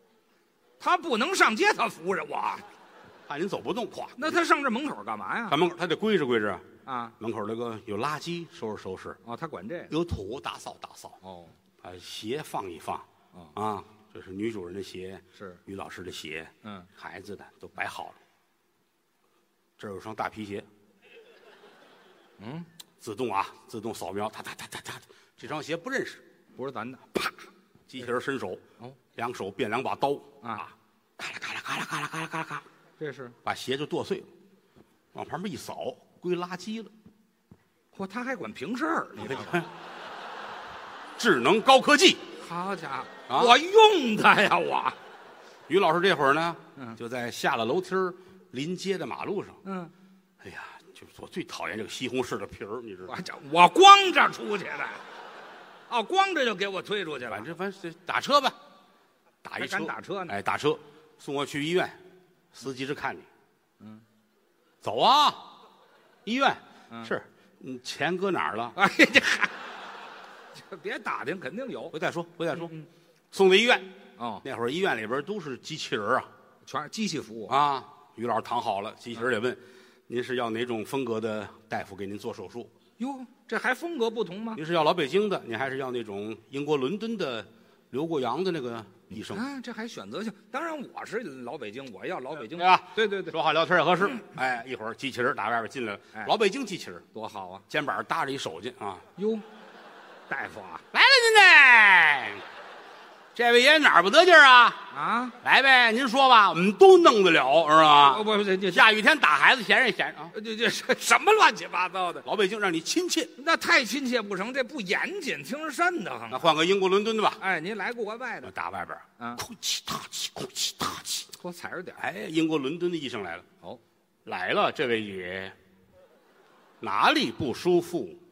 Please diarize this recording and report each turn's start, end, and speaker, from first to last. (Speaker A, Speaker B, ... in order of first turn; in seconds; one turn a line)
Speaker A: 0.8-2.6
Speaker B: 3.3-4.4
Speaker A: 4.2-5.6
Speaker B: 5.5-6.7
Speaker A: 6.9-7.2
Speaker B: 7.2-9.2
Speaker A: 9.2-9.9
Speaker B: 9.9-11.2
Speaker A: 11.2-11.6
Speaker B: 11.8-18.2
Speaker A: 16.6-16.9
Speaker B: 19.8-20.7
Speaker A: 22.4-22.7
Speaker B: 23.0-26.2
Speaker A: 26.6-27.4
Speaker B: 27.9-28.6
Speaker B: 29.1-32.6
Speaker A: 33.0-33.4
Speaker B: 33.4-34.3
Speaker B: 35.1-36.9
Speaker A: 37.9-39.7
Speaker B: 39.2-39.7
Speaker B: 41.2-42.2
Speaker A: 42.4-45.0
Speaker B: 43.3-43.6
Speaker B: 45.7-49.6
Speaker A: 49.6-49.9
Speaker B: 50.4-53.1
Speaker A: 53.1-55.0
Speaker A: 55.9-57.5
Speaker B: 57.3-58.6
Speaker B: 59.4-62.0
Speaker A: 59.6-60.4
Speaker B: 62.5-63.3
Speaker B: 64.8-65.5
Speaker B: 66.2-68.8
Speaker A: 68.8-69.5
Speaker A: 70.6-72.0
Speaker B: 71.9-72.7
Speaker A: 72.5-72.9
Speaker B: 73.3-73.9
Speaker A: 74.2-74.4
Speaker B: 74.4-76.3
Speaker A: 76.7-77.6
Speaker B: 77.5-82.7
Speaker A: 83.0-84.6
Speaker B: 84.6-89.5
Speaker A: 89.1-93.4
Speaker B: 92.5-97.0
Speaker A: 97.1-97.6
Speaker B: 97.7-99.1
Speaker A: 99.2-99.4
Speaker A: 100.3-100.9
Speaker B: 100.9-102.4
Speaker B: 103.3-104.9
Speaker A: 104.9-105.4
Speaker B: 105.4-110.3
Speaker A: 108.0-108.9
Speaker A: 110.3-112.3
Speaker B: 112.2-113.3
Speaker A: 113.4-116.5
Speaker B: 116.3-117.4
Speaker A: 117.4-118.5
Speaker B: 118.4-121.3
Speaker A: 119.2-119.4
Speaker A: 121.4-122.1
Speaker B: 122.0-123.5
Speaker B: 124.3-125.5
Speaker B: 126.8-128.2